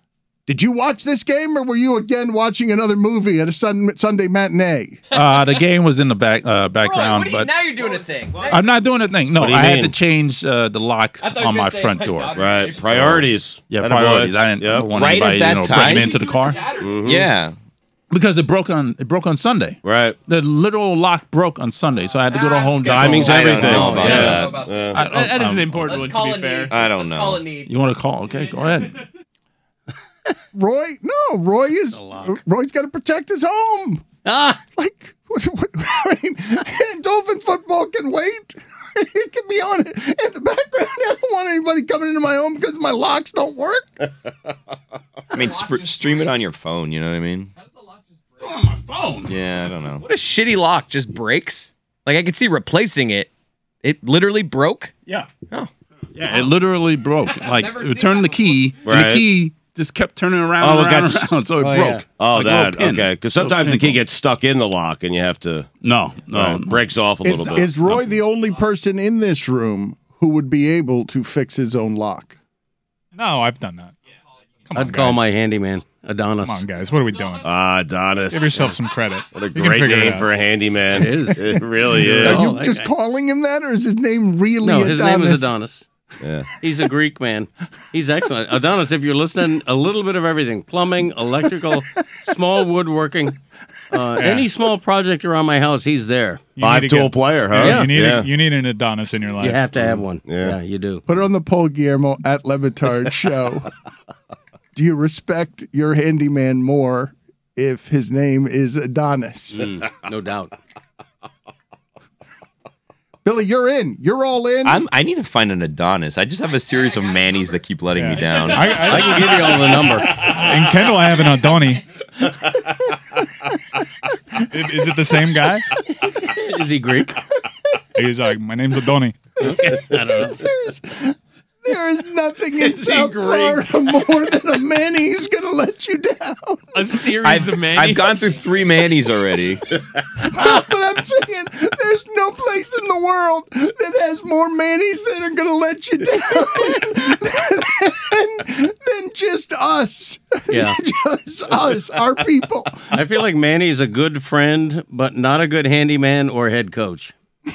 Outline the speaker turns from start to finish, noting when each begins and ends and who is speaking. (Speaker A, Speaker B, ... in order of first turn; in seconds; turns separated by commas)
Speaker A: 0.5-5.1, Speaker B: 5.1-7.5, Speaker C: 6.8-8.6, Speaker B: 8.4-12.4, Speaker D: 9.3-9.9, Speaker C: 11.2-12.6, Speaker D: 12.3-14.9, Speaker B: 12.9-16.6, Speaker E: 14.9-16.2, Speaker C: 15.9-16.8, Speaker D: 16.8-17.3, Speaker E: 17.0-17.5, Speaker B: 18.1-24.4, Speaker D: 19.8-20.2, Speaker C: 22.3-24.9, Speaker D: 22.8-25.0, Speaker E: 23.2-24.7, Speaker F: 23.6-24.4, Speaker B: 24.9-25.9, Speaker G: 25.0-26.8, Speaker C: 25.7-27.7, Speaker E: 26.7-27.4, Speaker B: 27.6-29.0, Speaker A: 30.5-34.0, Speaker F: 31.9-32.4, Speaker F: 34.2-34.6, Speaker A: 34.8-43.9, Speaker E: 45.3-47.5, Speaker B: 48.4-49.3, Speaker E: 49.3-50.0, Speaker C: 50.0-53.3, Speaker C: 53.8-54.9, Speaker B: 56.1-64.0, Speaker D: 58.8-59.3, Speaker D: 60.6-61.3, Speaker F: 61.6-62.0, Speaker D: 62.1-65.7, Speaker B: 65.8-66.8, Speaker D: 66.3-68.0, Speaker A: 67.2-72.3, Speaker H: 73.2-73.9, Speaker H: 74.7-75.3, Speaker F: 74.7-76.6, Speaker H: 76.4-77.5, Speaker D: 77.4-78.7, Speaker H: 78.3-80.3, Speaker D: 79.3-82.5, Speaker F: 80.9-82.9, Speaker A: 81.6-85.5, Speaker F: 84.6-85.9, Speaker D: 86.2-86.5, Speaker F: 86.6-93.4, Speaker F: 93.9-96.5, Speaker H: 94.2-94.4, Speaker H: 96.6-99.6, Speaker D: 96.6-98.3, Speaker F: 97.5-97.9, Speaker F: 99.4-101.0, Speaker D: 99.8-100.6, Speaker A: 101.1-103.7, Speaker A: 104.7-109.8, Speaker F: 109.5-110.5, Speaker A: 113.2-114.8, Speaker E: 114.6-119.0, Speaker H: 117.9-121.8, Speaker F: 118.8-120.4, Speaker H: 124.4-125.7, Speaker F: 126.1-127.2, Speaker H: 127.9-129.2, Speaker F: 129.4-130.4, Speaker A: 130.1-137.0, Speaker D: 132.8-133.4, Speaker G: 136.7-138.4, Speaker E: 137.2-139.7, Speaker A: 140.2-153.0, Speaker F: 150.5-150.8, Speaker F: 152.9-157.1